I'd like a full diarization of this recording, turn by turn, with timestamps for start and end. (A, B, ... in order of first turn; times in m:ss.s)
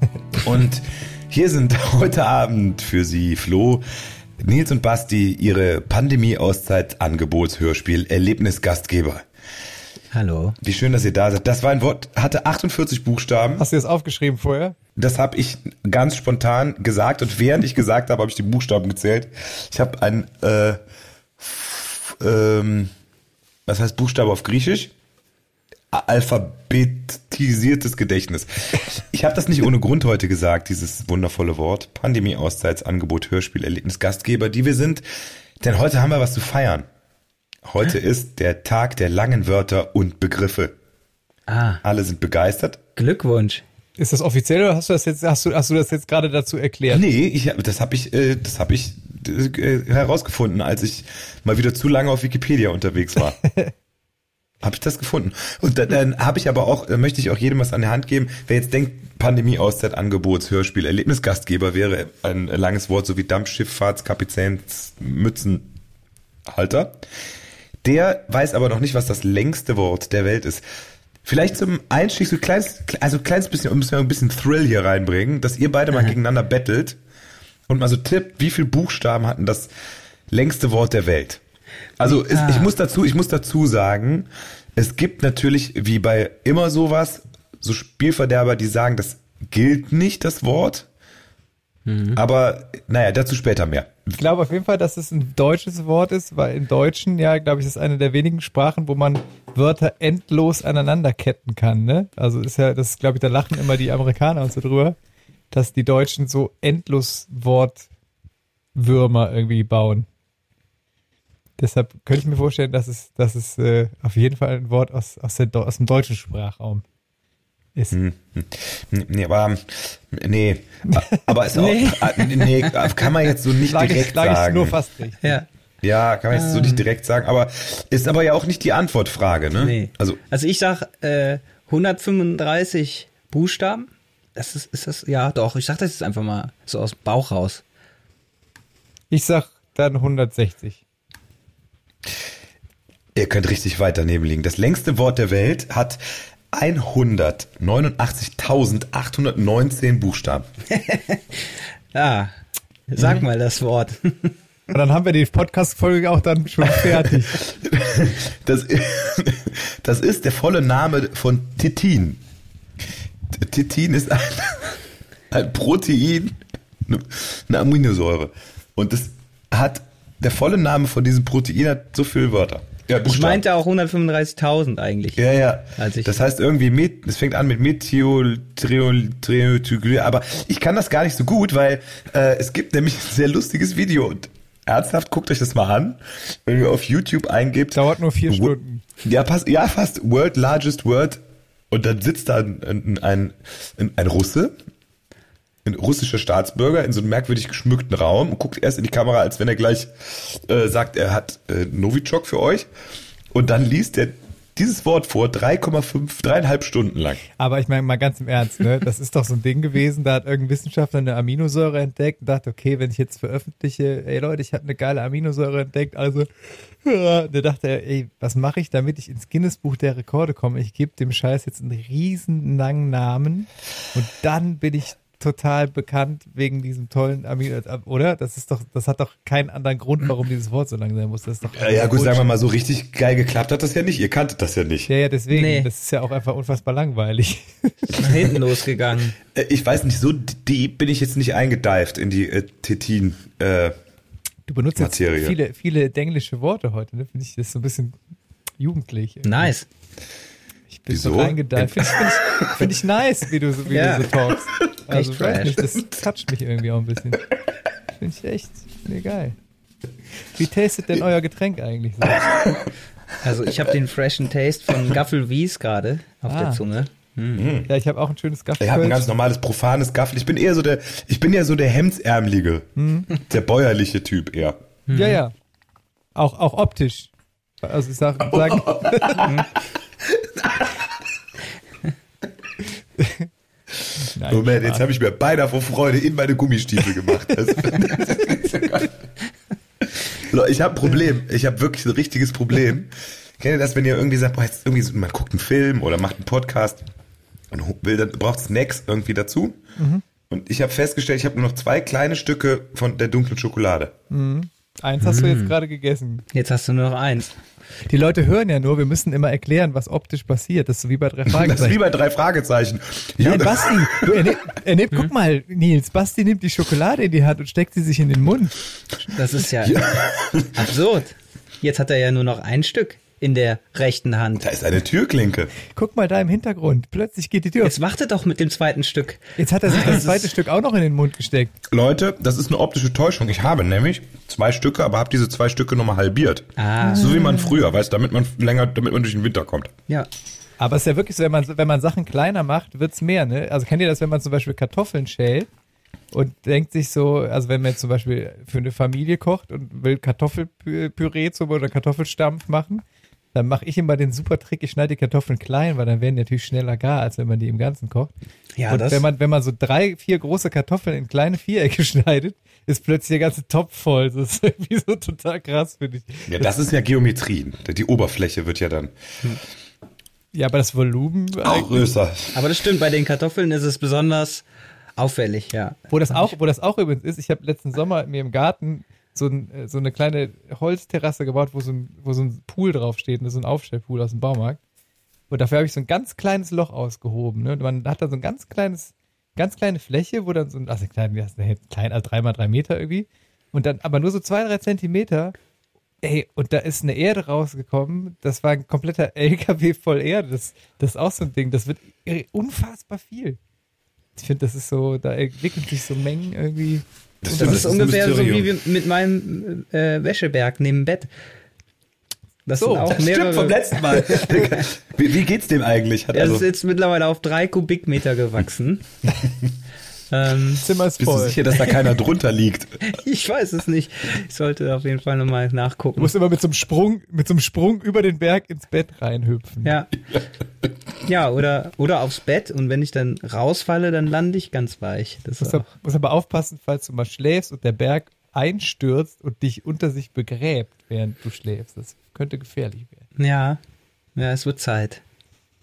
0:00.3-0:03.8 A
0:04.4-0:09.2 A
0:10.1-0:10.6 B
0:10.6-0:13.7 A
0:13.6-0:14.8 C
0:15.0-0:20.8 A
0:21.4-0:22.9 A
0:23.7-0:24.9 A
0:25.9-0:35.0 A
0:35.6-0:36.9 A
0:37.6-0:40.8 A
0:41.5-0:41.8 B
0:41.8-0:42.8 A
0:43.0-0:43.6 B
0:44.0-0:47.0 C
0:46.9-0:53.4 A
0:53.4-0:53.7 C
0:54.6-1:05.7 A
1:06.5-1:07.1 A
1:07.8-1:10.6 A
1:11.2-1:17.0 A
1:17.7-1:19.7 A
1:20.3-1:21.4 A
1:22.0-1:30.9 A
1:22.0-1:22.7 B
1:31.9-1:32.2 B
1:32.2-1:34.1 A
1:34.2-1:45.0 C
1:45.5-1:47.9 C
1:48.8-1:50.1 C
1:51.6-1:56.8 C
1:57.9-2:04.8 A
2:00.9-2:01.3 C
2:01.5-2:03.2 B
2:03.7-2:05.3 C
2:05.8-2:10.2 A
2:06.3-2:06.8 B
2:09.5-2:17.6 B
2:19.1-2:20.8 C
2:23.2-2:26.0 A
2:26.5-2:30.5 A
2:30.7-2:32.3 B
2:32.9-2:34.4 B
2:34.7-2:37.4 C
2:37.4-2:42.2 A
2:43.3-2:53.4 A
2:53.0-2:55.2 B
2:55.2-3:14.5 A
2:55.8-2:56.2 B
3:07.8-3:08.8 C
3:15.6-3:22.7 A
3:23.3-3:27.2 A
3:27.4-3:36.3 C
3:36.8-3:52.3 C
3:51.5-3:54.9 A
3:54.9-3:58.3 C
3:55.3-3:55.7 B
3:58.0-3:59.2 B
3:59.3-4:03.8 A
4:04.5-4:08.0 C
4:04.8-4:05.4 A
4:08.6-4:09.5 C
4:09.2-4:09.7 B
4:10.7-4:17.3 C
4:10.9-4:12.7 A
4:13.7-4:14.2 B
4:14.9-4:15.7 B
4:18.0-4:19.4 C
4:20.4-4:22.3 C
4:22.2-4:22.7 A
4:23.2-4:27.5 B
4:26.3-4:26.6 C
4:27.4-4:27.7 A
4:27.7-4:29.1 C
4:28.6-4:34.6 A
4:32.8-4:33.1 C
4:34.9-4:35.2 B
4:34.9-4:35.3 C
4:36.2-4:39.3 C
4:38.2-4:39.4 A
4:40.0-4:40.9 A
4:43.0-4:43.3 C
4:44.0-4:44.8 C
4:44.3-4:49.0 A
4:49.8-4:56.8 A
4:57.5-4:59.6 A
4:59.8-5:00.0 C
5:00.3-5:03.9 A
5:04.1-5:06.2 C
5:05.0-5:05.5 B
5:06.3-5:07.4 B
5:07.9-5:11.8 C
5:11.3-5:14.4 A
5:13.2-5:18.6 C
5:19.1-5:19.9 B
5:19.6-5:20.7 A
5:20.5-5:24.4 B
5:24.4-5:25.5 A
5:25.7-5:27.8 C
5:27.6-5:30.3 B
5:29.4-5:31.5 C
5:31.7-5:39.7 A
5:36.6-5:37.3 B
5:36.8-5:37.1 C
5:40.6-5:45.5 C
5:46.1-5:52.8 C
5:53.3-5:58.1 C
5:58.6-5:59.0 B
5:58.7-6:06.5 C
6:06.3-6:08.9 A
6:10.3-6:11.9 C
6:11.4-6:12.5 A
6:12.3-6:14.4 B
6:15.0-6:15.9 B
6:15.9-6:24.6 C
6:25.3-6:35.4 C
6:36.0-6:43.4 C
6:44.2-6:47.8 C
6:47.2-6:48.5 A
6:47.3-6:51.1 B
6:52.5-6:54.6 B
6:52.6-6:53.0 C
6:52.9-6:56.5 A
6:56.1-6:58.9 B
7:00.1-7:00.6 B
7:00.6-7:01.4 C
7:01.0-7:02.9 A
7:02.9-7:06.1 B
7:06.0-7:09.8 C
7:09.6-7:09.9 B
7:10.1-7:10.7 A
7:11.0-7:15.7 B
7:15.4-7:23.0 C
7:23.2-7:23.6 B
7:24.2-7:25.0 B